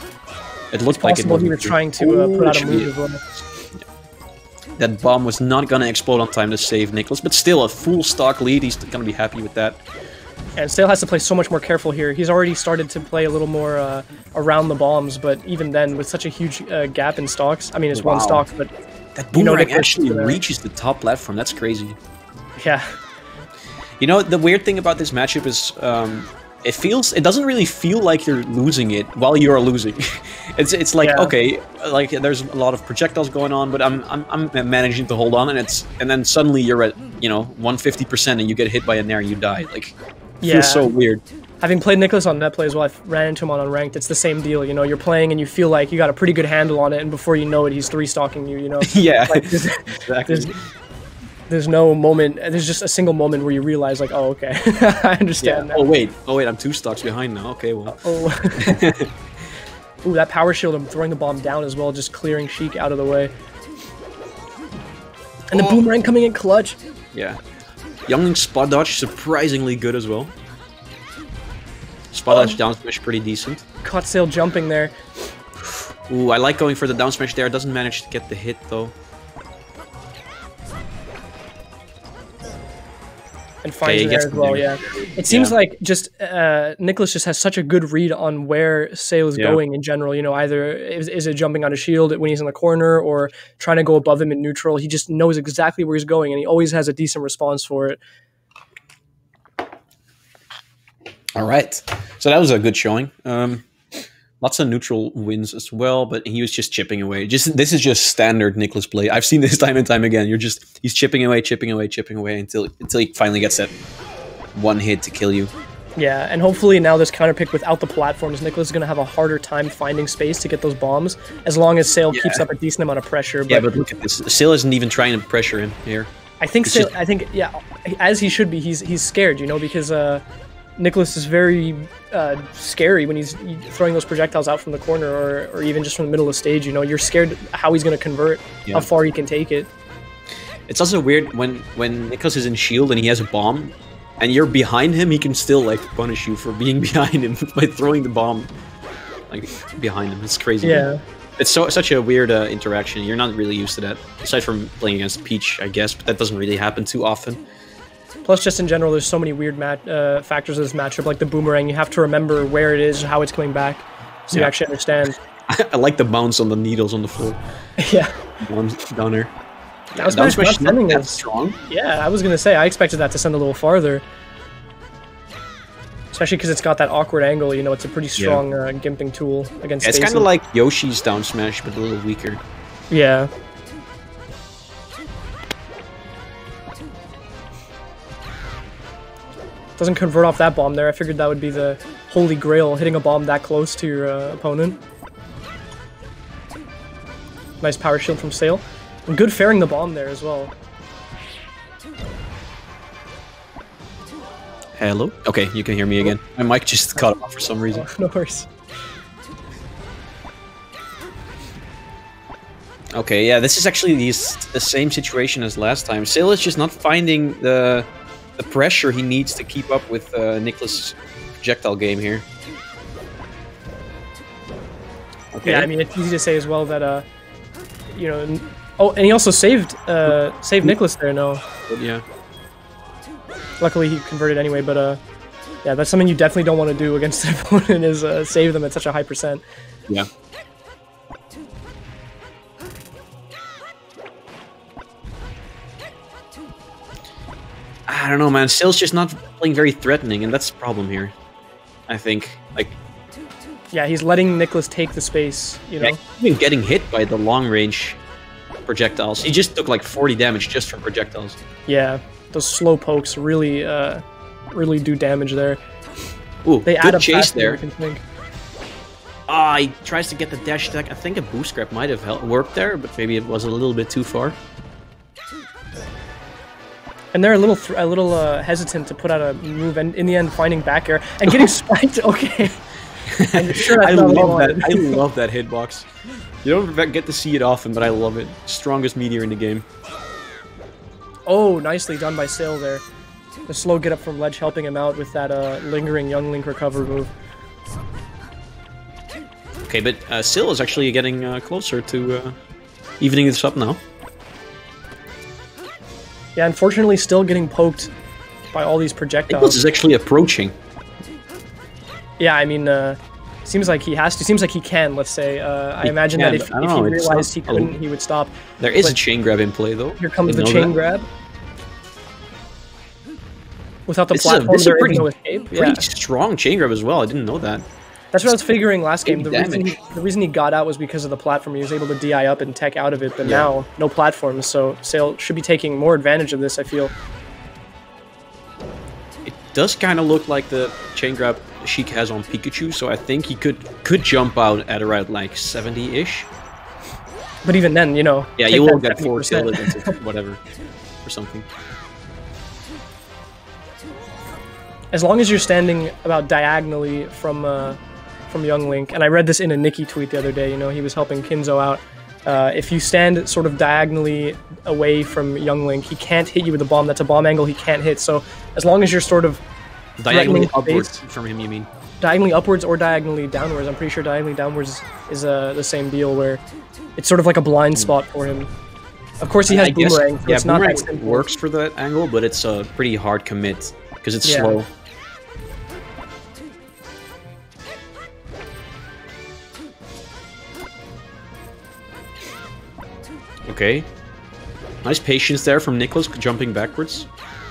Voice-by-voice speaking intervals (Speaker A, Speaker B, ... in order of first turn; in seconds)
Speaker A: 0.7-2.9, 4.8-9.8, 17.9-18.4, 19.1-22.0, 24.0-41.2, 48.8-50.6, 55.4-58.0, 58.5-59.1, 65.5-65.8, 67.1-67.4, 68.1-70.3, 72.1-73.7, 75.6-78.9, 83.8-85.6, 101.3-113.7, 114.5-115.5, 122.1-122.5, 123.5-126.1, 126.6-126.9, 140.7-148.5, 149.3-157.4, 165.5-167.4, 168.4-169.3, 169.9-171.6, 178.2-178.4, 179.8-182.4, 204.8-207.8, 212.9-222.2, 225.3-225.7, 231.7-232.1, 247.9-251.1, 251.9-252.8, 255.8-258.0, 258.7-261.4, 266.4-267.6, 269.3-274.4, 281.2-281.5, 283.1-285.9, 286.4-289.7, 299.7-302.4, 303.0-303.8, 309.3-310.6, 315.8-317.8, 318.6-320.7, 324.1-327.7, 328.2-328.5, 329.1-329.8, 333.2-333.5, 339.2-346.3, 348.4-350.4, 351.0-351.5, 370.0-371.7, 379.5-384.7, 393.4-393.9, 394.8-397.1
Speaker B: 0.9-3.2, 10.6-18.7, 19.3-20.4, 22.6-23.0, 31.0-31.3, 40.4-40.9, 41.6-50.5, 51.5-55.9, 58.0-58.9, 60.0-63.3, 65.5-66.8, 72.3-72.6, 73.8-74.9, 83.6-98.0, 116.0-123.7, 126.4-130.2, 130.8-139.7, 150.6-151.0, 158.2-165.2, 167.8-168.2, 170.0-174.0, 176.1-180.3, 182.9-183.3, 189.8-194.8, 197.6-200.5, 207.7-208.5, 225.4-227.1, 227.9-231.4, 233.6-235.0, 235.6-239.4, 253.7-256.0, 261.7-265.6, 266.6-268.0, 277.1-282.6, 283.3-285.0, 291.3-292.8, 293.5-297.1, 306.4-307.9, 308.5-309.6, 312.2-318.9, 320.0-321.1, 323.9-325.8, 328.1-336.9, 347.4-350.0, 354.9-369.4, 370.1-371.0, 372.0-376.4, 377.0-378.5, 379.2-381.2, 384.2-384.6